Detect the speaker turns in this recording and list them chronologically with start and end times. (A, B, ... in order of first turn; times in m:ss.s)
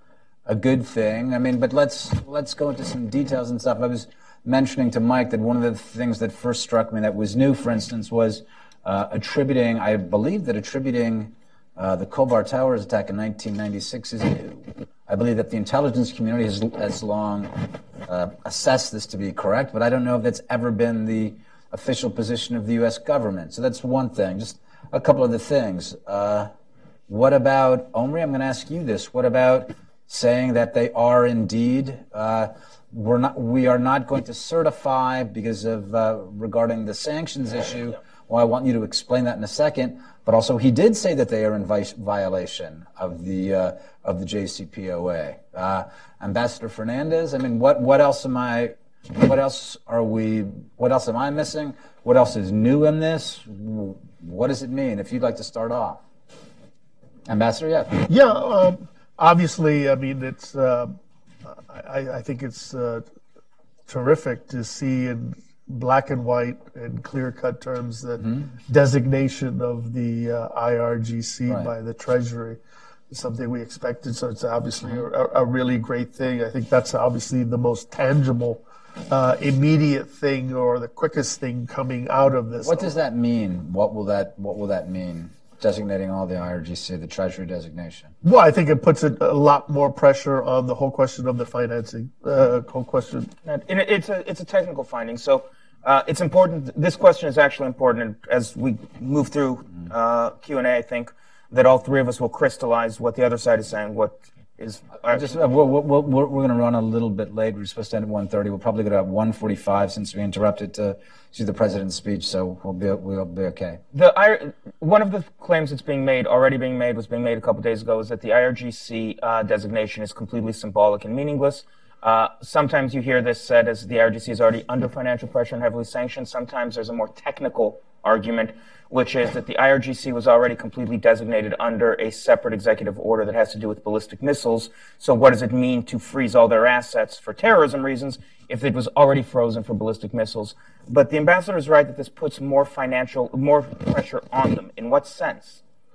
0:00.5-0:26.5 A
0:27.1-0:56.0 A
0:57.3-0:58.1 A
0:58.1-1:03.0 B
1:03.9-1:22.9 B
1:08.2-1:08.5 A
1:22.6-1:28.1 A
1:28.2-1:33.3 B
1:33.4-1:45.3 C
1:45.0-1:53.8 A
1:53.9-2:25.6 C